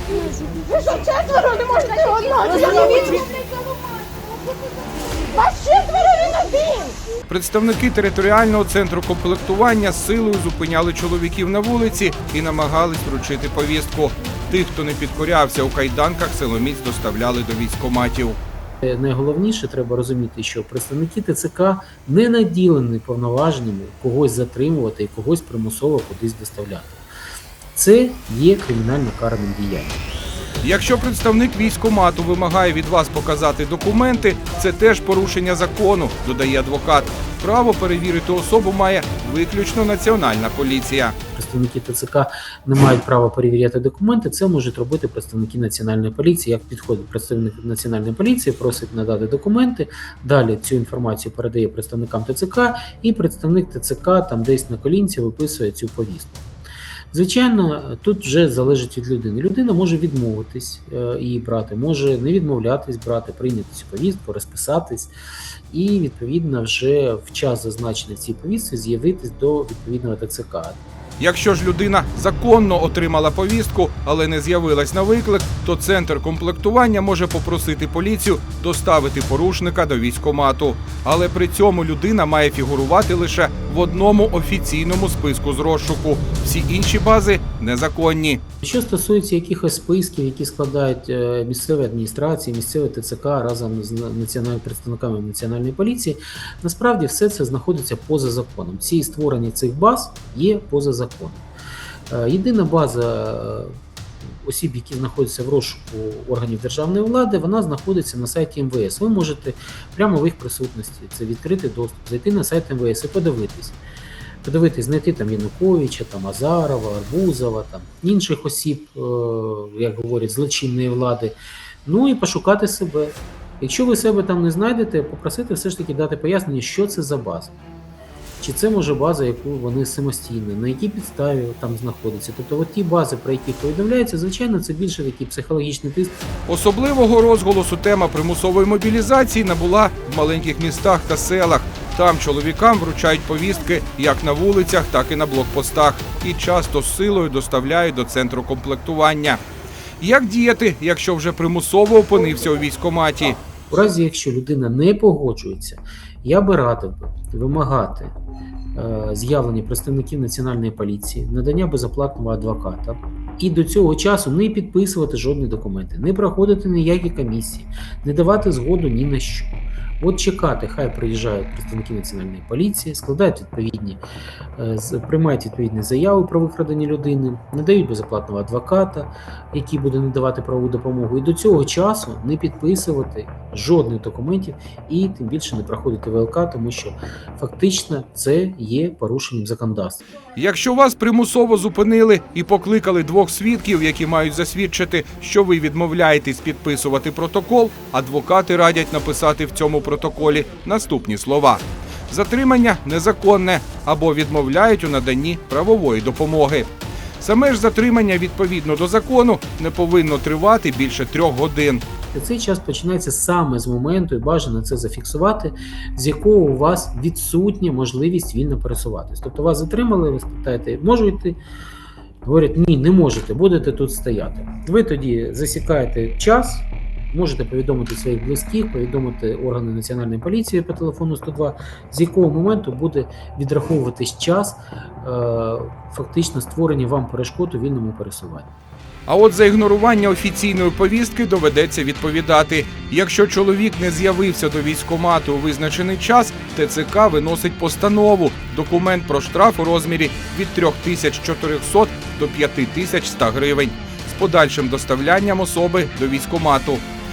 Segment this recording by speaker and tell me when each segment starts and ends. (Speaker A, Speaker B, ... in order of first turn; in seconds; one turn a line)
Speaker A: 0.5-3.8
Speaker A: 5.3-6.9
Speaker B: 7.3-18.4
Speaker C: 18.8-27.0
Speaker C: 27.7-30.0
Speaker B: 30.6-41.1
Speaker C: 41.3-56.5
Speaker C: 57.1-65.1
Speaker C: 65.7-70.8
Speaker B: 71.2-88.4
Speaker C: 88.6-101.5
Speaker C: 102.1-103.8
Speaker C: 104.3-113.8
Speaker C: 114.4-127.6
Speaker C: 128.4-136.2
Speaker B: 136.5-149.4
Speaker B: 150.0-153.4
Speaker C: 153.7-158.1
Speaker C: 158.7-174.0
Speaker C: 174.6-190.0
Speaker B: 190.3-211.8
Speaker C: 212.1-221.4
Speaker C: 222.2-238.5
Speaker B: 239.1-256.8